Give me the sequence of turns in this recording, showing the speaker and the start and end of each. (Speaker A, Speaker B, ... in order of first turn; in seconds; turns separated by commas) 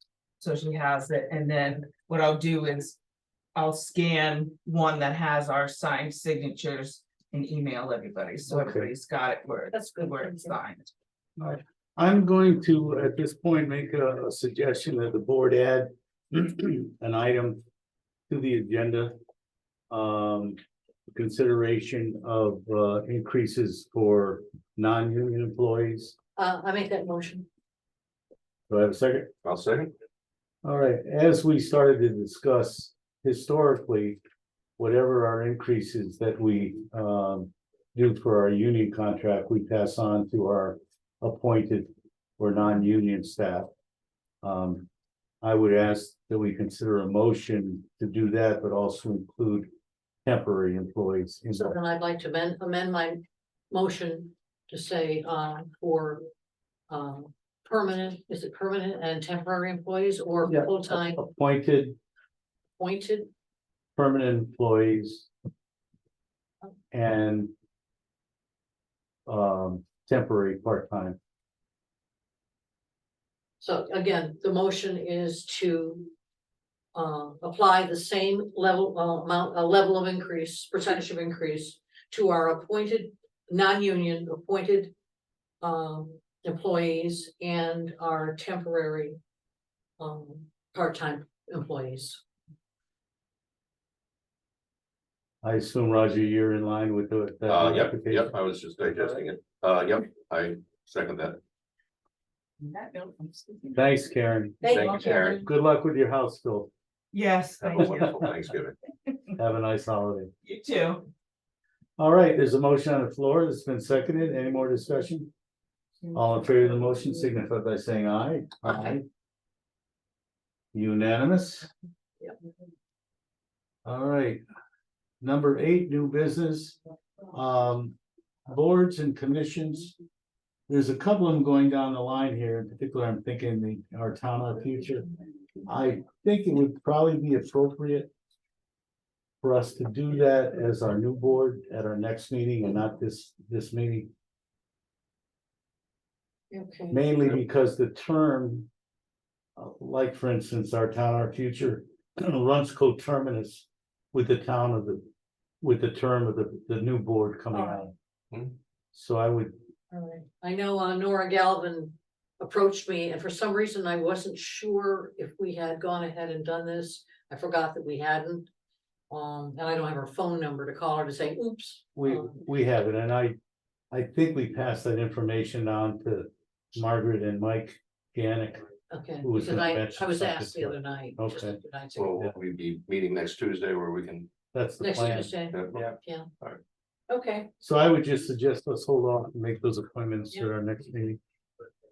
Speaker A: 0.4-3.0, Speaker A: 3.5-10.9, Speaker B: 8.5-8.9, Speaker C: 9.7-10.5, Speaker B: 11.4-17.6, Speaker B: 18.3-19.1, Speaker B: 19.9-20.6, Speaker B: 21.1-26.1, Speaker C: 26.4-27.5, Speaker B: 28.7-29.3, Speaker D: 29.4-29.9, Speaker B: 30.6-34.2, Speaker B: 34.8-43.7, Speaker B: 44.4-44.9, Speaker B: 45.4-49.7, Speaker B: 50.2-51.8, Speaker C: 51.5-53.2, Speaker C: 53.7-56.3, Speaker C: 56.9-61.2, Speaker B: 60.5-62.0, Speaker C: 62.8-63.3, Speaker B: 64.0-65.3, Speaker B: 66.9-67.5, Speaker B: 69.3-71.2, Speaker C: 73.6-76.1, Speaker C: 76.9-84.9, Speaker C: 85.6-89.2, Speaker C: 90.0-92.2, Speaker B: 95.4-98.3, Speaker D: 97.5-101.4, Speaker A: 102.6-103.9, Speaker B: 103.7-106.7, Speaker C: 104.6-105.5, Speaker D: 104.7-105.4, Speaker A: 107.1-108.0, Speaker D: 107.6-108.8, Speaker B: 107.8-108.1, Speaker B: 109.4-110.3, Speaker A: 110.4-111.1, Speaker B: 112.0-115.3, Speaker B: 116.1-119.0, Speaker B: 120.7-121.7, Speaker B: 123.8-124.4, Speaker B: 125.2-126.8, Speaker B: 127.3-128.0, Speaker B: 128.5-129.9, Speaker B: 130.7-135.1, Speaker B: 135.7-138.1, Speaker B: 139.4-144.1, Speaker C: 146.5-147.0, Speaker B: 146.9-148.7, Speaker B: 149.6-155.0, Speaker B: 155.6-157.9, Speaker C: 157.5-157.9, Speaker B: 158.9-159.5, Speaker C: 159.9-168.5, Speaker C: 169.1-172.3, Speaker B: 172.0-173.4, Speaker B: 173.9-178.7, Speaker C: 178.9-182.2, Speaker B: 179.2-181.6, Speaker D: 182.0-184.3, Speaker B: 184.5-185.4, Speaker C: 184.8-186.3, Speaker D: 185.5-186.6, Speaker C: 187.1-187.5, Speaker B: 187.6-191.2